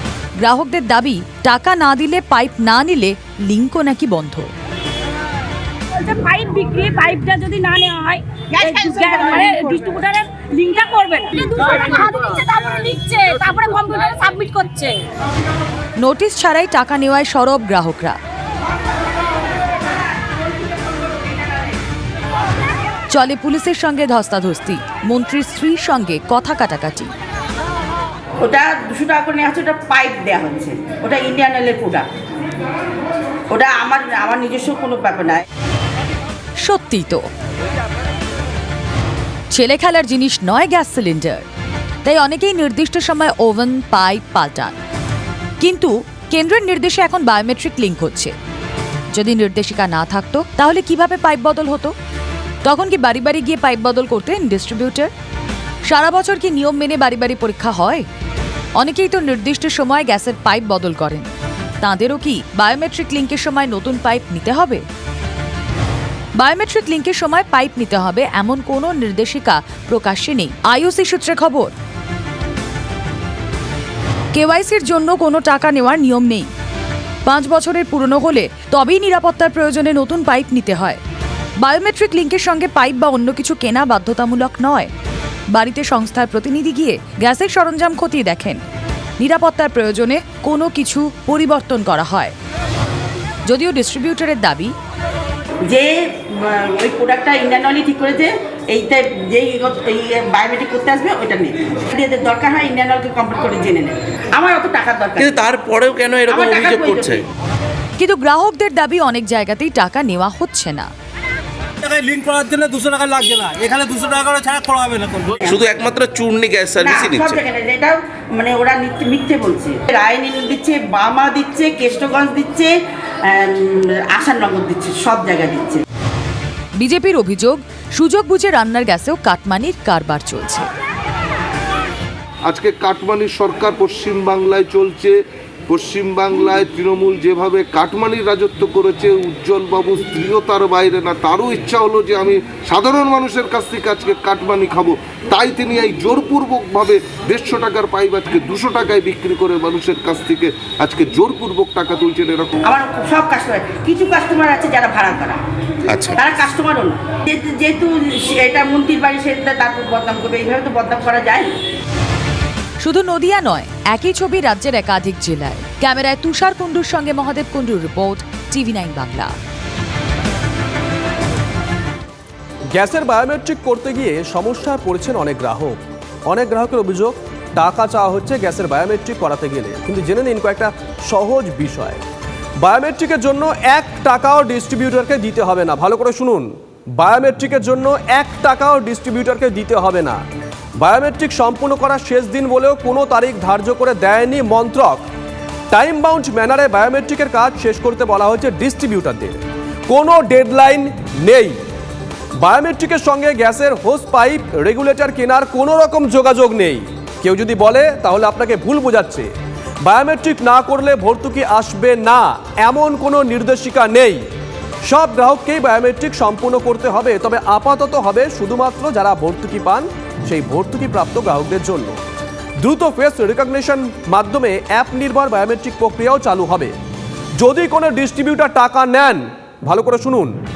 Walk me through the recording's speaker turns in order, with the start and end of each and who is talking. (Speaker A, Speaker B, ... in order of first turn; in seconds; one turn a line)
Speaker A: 0.4-4.5
Speaker B: 6.0-15.0
Speaker C: 8.6-9.7
Speaker A: 16.0-18.2
Speaker A: 23.1-27.1
Speaker C: 28.4-32.1
Speaker C: 33.5-35.4
Speaker A: 36.6-37.2
Speaker A: 39.5-41.4
Speaker A: 42.0-44.7
Speaker A: 45.6-48.3
Speaker A: 49.1-51.9
Speaker A: 52.6-55.1
Speaker A: 55.9-58.0
Speaker A: 58.8-61.3
Speaker A: 61.8-64.8
Speaker A: 66.4-71.7
Speaker A: 74.3-76.5
Speaker A: 77.2-81.0
Speaker A: 81.6-84.9
Speaker A: 85.5-88.6
Speaker A: 89.2-92.3
Speaker A: 93.5-94.7
Speaker C: 95.6-105.5
Speaker D: 105.2-107.2
Speaker C: 106.2-107.2
Speaker A: 108.0-110.9
Speaker E: 111.8-115.4
Speaker C: 115.4-115.8
Speaker D: 115.4-117.4
Speaker C: 116.7-125.8
Speaker A: 126.8-130.7
Speaker F: 132.4-135.2
Speaker F: 135.7-152.6
Speaker C: 152.7-155.4
Speaker D: 155.9-156.2
Speaker C: 156.1-161.6
Speaker A: 162.8-169.3
Speaker G: 172.7-182.0
Speaker G: 182.6-190.2
Speaker G: 190.8-195.1
Speaker G: 195.7-201.6
Speaker G: 202.4-209.3
Speaker G: 209.8-214.2
Speaker G: 214.8-222.0
Speaker G: 222.6-226.7
Speaker G: 227.4-230.4